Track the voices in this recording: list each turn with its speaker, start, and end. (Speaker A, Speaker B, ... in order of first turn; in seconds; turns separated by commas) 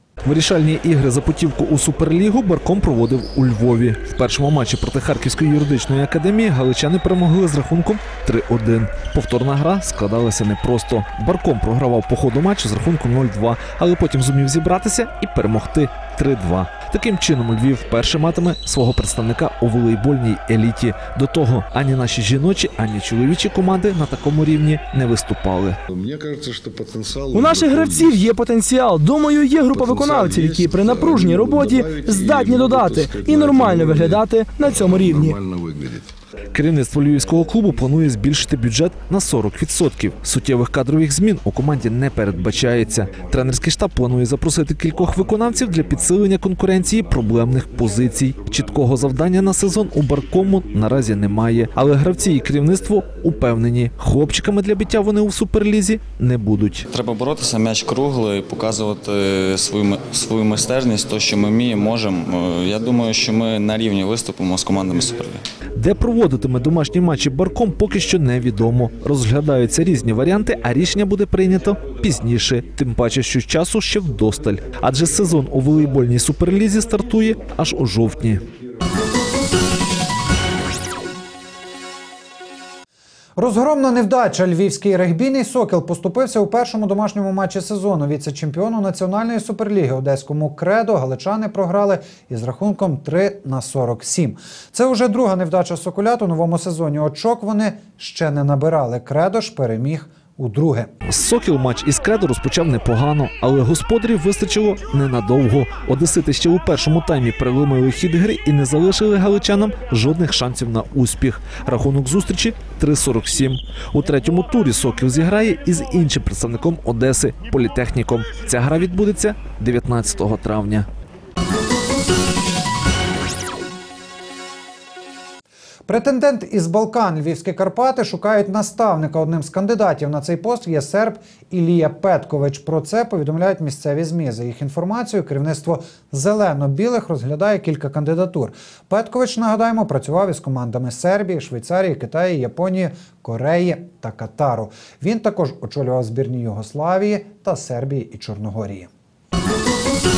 Speaker A: 0.2-25.8, Speaker B: 25.9-28.2, Speaker C: 27.3-35.4, Speaker B: 29.6-36.0, Speaker A: 36.5-56.9, Speaker D: 56.9-65.4, Speaker A: 65.8-78.5, Speaker E: 83.4-100.9, Speaker A: 101.0-120.9, Speaker E: 125.9-148.9